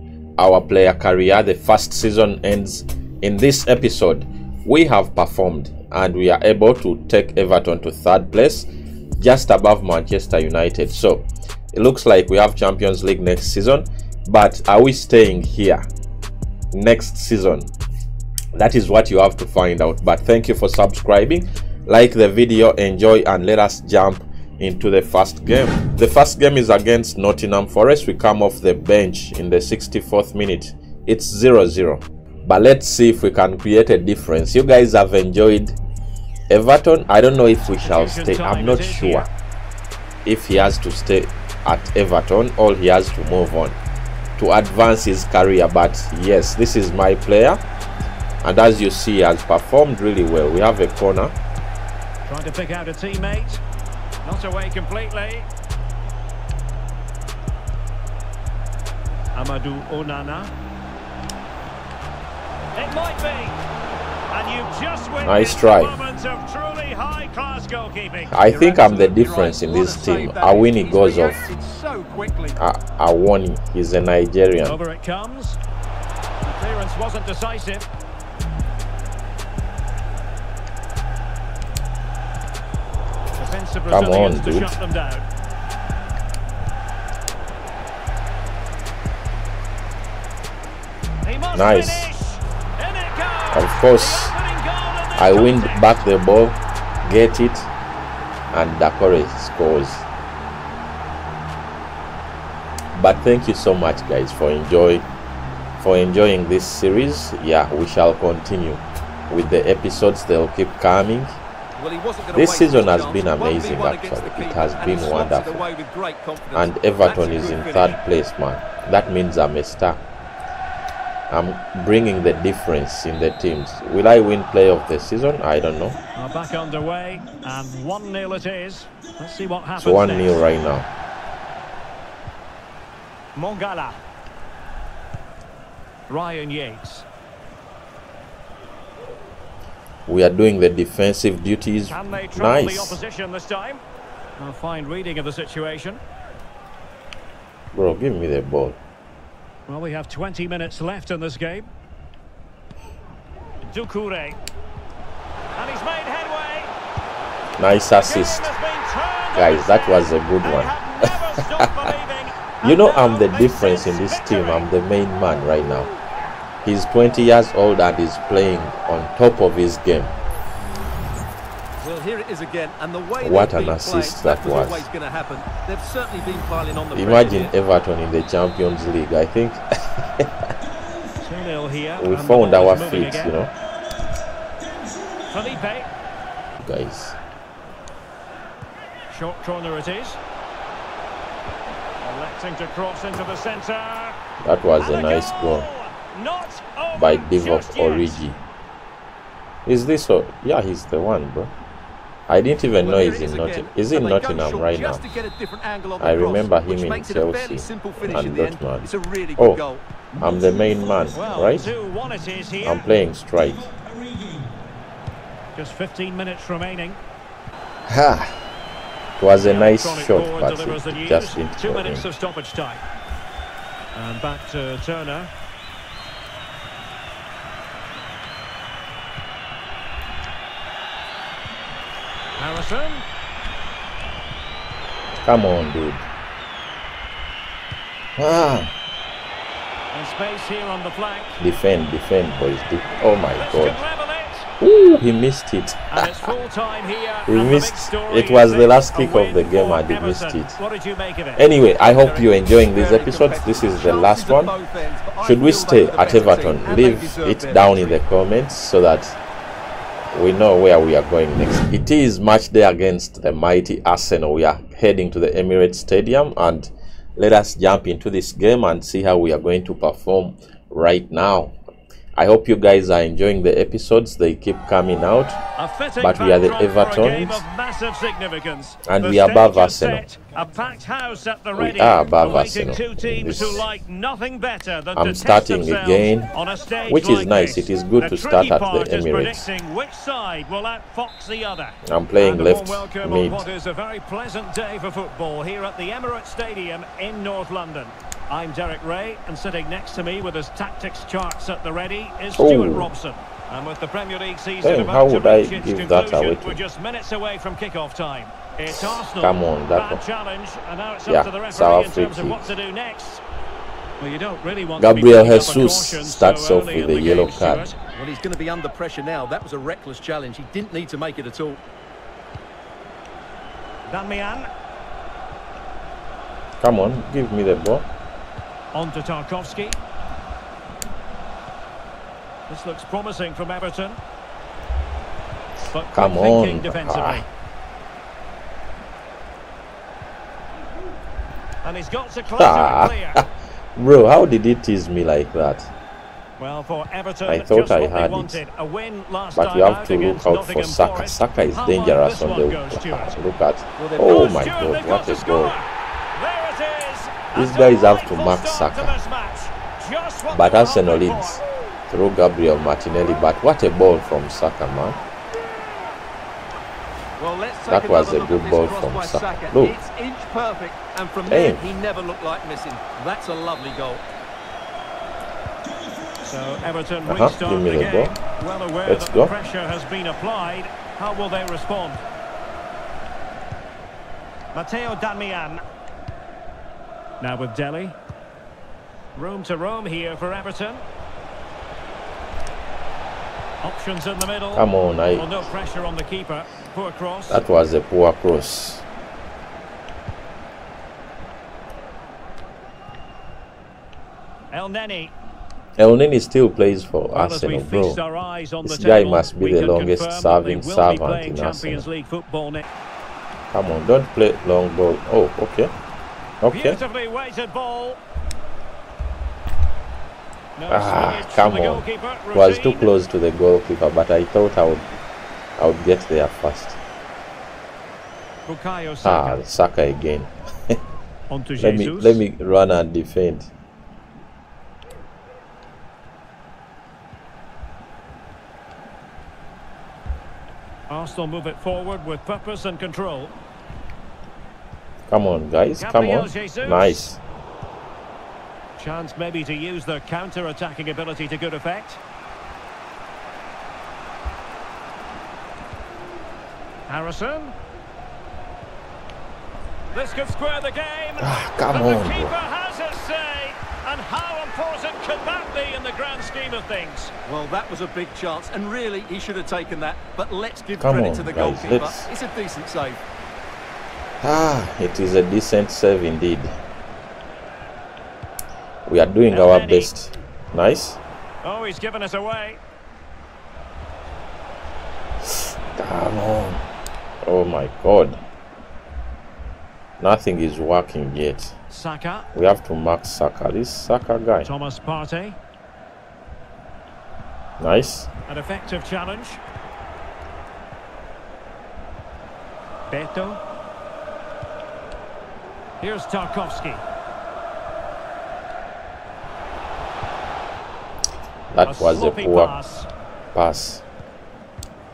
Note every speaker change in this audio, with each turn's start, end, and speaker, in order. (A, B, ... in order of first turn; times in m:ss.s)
0:00.4-0:15.9 A
0:16.7-0:17.7 A
0:18.5-0:35.8 A
0:36.5-0:39.3 A
0:37.8-0:39.3 B
0:40.2-0:43.8 A
0:44.4-0:47.6 A
0:48.4-0:51.3 A
0:52.2-0:53.6 B
0:54.2-0:55.5 B
0:59.4-1:00.5 B
1:02.8-1:03.6 B
1:04.3-1:08.4 B
1:05.2-1:06.0 A
1:08.3-1:11.5 A
1:08.5-1:12.6 C
1:12.6-1:14.8 A
1:14.6-1:15.6 B
1:16.4-1:17.8 B
1:23.4-1:25.2 B
1:23.9-1:24.8 A
1:31.2-1:36.0 B
1:31.5-1:32.1 A
1:33.5-1:34.4 A
1:35.2-1:37.7 A
1:38.5-1:40.0 A
1:43.0-1:45.1 A
1:45.8-1:51.4 A
1:51.8-1:58.0 C
1:52.3-1:55.6 A
1:56.5-2:00.0 A
2:01.3-2:06.0 A
2:06.2-2:10.4 B
2:09.8-2:10.9 A
2:13.4-2:14.0 B
2:16.1-2:17.0 B
2:20.1-2:23.0 A
2:21.9-2:23.8 B
2:24.4-2:26.0 B
2:27.7-2:28.8 A
2:29.7-2:31.7 B
2:33.7-2:34.4 B
2:35.6-2:36.7 B
2:37.6-2:38.5 A
2:37.9-2:44.7 B
2:39.4-2:41.9 A
2:42.6-2:45.9 A
2:46.6-2:50.1 A
2:51.8-2:57.6 C
2:53.2-2:54.9 A
2:56.9-3:00.5 A
3:01.2-3:03.4 B
3:02.0-3:03.5 A
3:05.3-3:05.9 B
3:06.6-3:07.2 A
3:09.1-3:10.2 B
3:12.0-3:14.2 B
3:14.4-3:15.7 A
3:14.8-3:18.2 B
3:17.0-3:18.4 A
3:19.7-3:21.5 A
3:22.3-3:25.0 A
3:22.8-3:31.1 C
3:26.0-3:29.6 A
3:30.2-3:31.7 A
3:31.1-3:32.9 B
3:32.6-3:33.7 A
3:33.7-3:34.5 C
3:35.6-3:37.0 B
3:37.9-3:38.4 A
3:39.2-3:42.1 A
3:39.4-3:42.8 B
3:43.9-3:45.3 B
3:52.4-3:53.0 B
3:55.2-3:56.1 A
3:58.2-3:58.7 A
3:59.9-4:01.4 B
4:01.4-4:03.8 A
4:03.4-4:04.5 B
4:04.6-4:06.3 A
4:05.9-4:12.4 B
4:07.3-4:10.6 A
4:11.4-4:14.5 A
4:12.0-4:18.0 C
4:15.2-4:19.2 A
4:20.1-4:31.5 A
4:32.2-4:35.4 A
4:35.6-5:13.2 B
4:36.0-4:37.4 A
4:38.9-4:40.0 A
4:41.6-4:43.6 A
4:45.0-4:46.3 A
4:46.9-4:49.5 A
4:51.8-4:53.5 A
5:02.4-5:02.9 A
5:04.6-5:06.6 A
5:08.8-5:10.0 A
5:11.1-5:12.5 A
5:14.0-5:17.8 B
5:14.8-5:17.7 A
5:17.9-5:21.6 C
5:23.9-5:24.5 B
5:26.6-5:27.9 A
5:28.7-5:29.8 B
5:32.5-5:34.0 B
5:35.7-5:37.2 B
5:35.9-5:37.2 A
5:41.6-5:43.2 B
5:42.3-5:45.7 A
5:46.4-5:53.2 B
5:47.3-5:48.4 A
5:49.4-5:55.6 A
5:53.8-5:54.2 C
5:54.0-6:01.4 B
5:57.3-5:59.0 A
6:00.3-6:05.0 A
6:07.2-6:14.0 C
6:07.7-6:09.8 A
6:11.3-6:11.7 A
6:16.2-6:22.0 B
6:17.1-6:18.2 A
6:18.9-6:19.3 A
6:24.5-6:25.6 B
6:27.2-6:28.0 B
6:29.2-6:30.8 B
6:33.6-6:37.4 B
6:34.5-6:35.5 A
6:37.3-6:38.8 A
6:44.5-6:45.1 B
6:45.8-6:48.0 A
6:47.1-6:52.7 B
6:48.6-6:51.9 A
6:53.5-6:55.7 A
6:56.4-6:56.8 A
6:56.5-6:58.0 B
7:00.6-7:02.9 B
7:00.7-7:04.9 A
7:05.6-7:06.8 A
7:08.5-7:09.4 B
7:09.0-7:10.8 A
7:11.3-7:12.2 B
7:11.6-7:13.5 A
7:20.9-7:23.3 B
7:25.1-7:27.2 A
7:25.8-7:27.1 B
7:28.8-7:32.0 B
7:36.9-7:37.5 B
7:39.9-7:47.1 B
7:41.2-7:42.4 A
7:47.3-7:53.0 C
7:50.8-7:52.1 A
7:54.2-7:56.5 A
7:58.9-8:01.0 A
7:59.3-7:59.9 B
8:01.4-8:02.6 B
8:05.2-8:06.6 A
8:07.2-8:08.2 A
8:10.0-8:11.5 A
8:11.7-8:12.3 B
8:12.3-8:14.5 A
8:14.4-8:15.4 B
8:17.6-8:18.1 A
8:18.3-8:19.4 B
8:22.9-8:23.4 B
8:25.8-8:26.8 B
8:31.5-8:32.6 A
8:31.6-8:32.9 B
8:33.3-8:33.8 A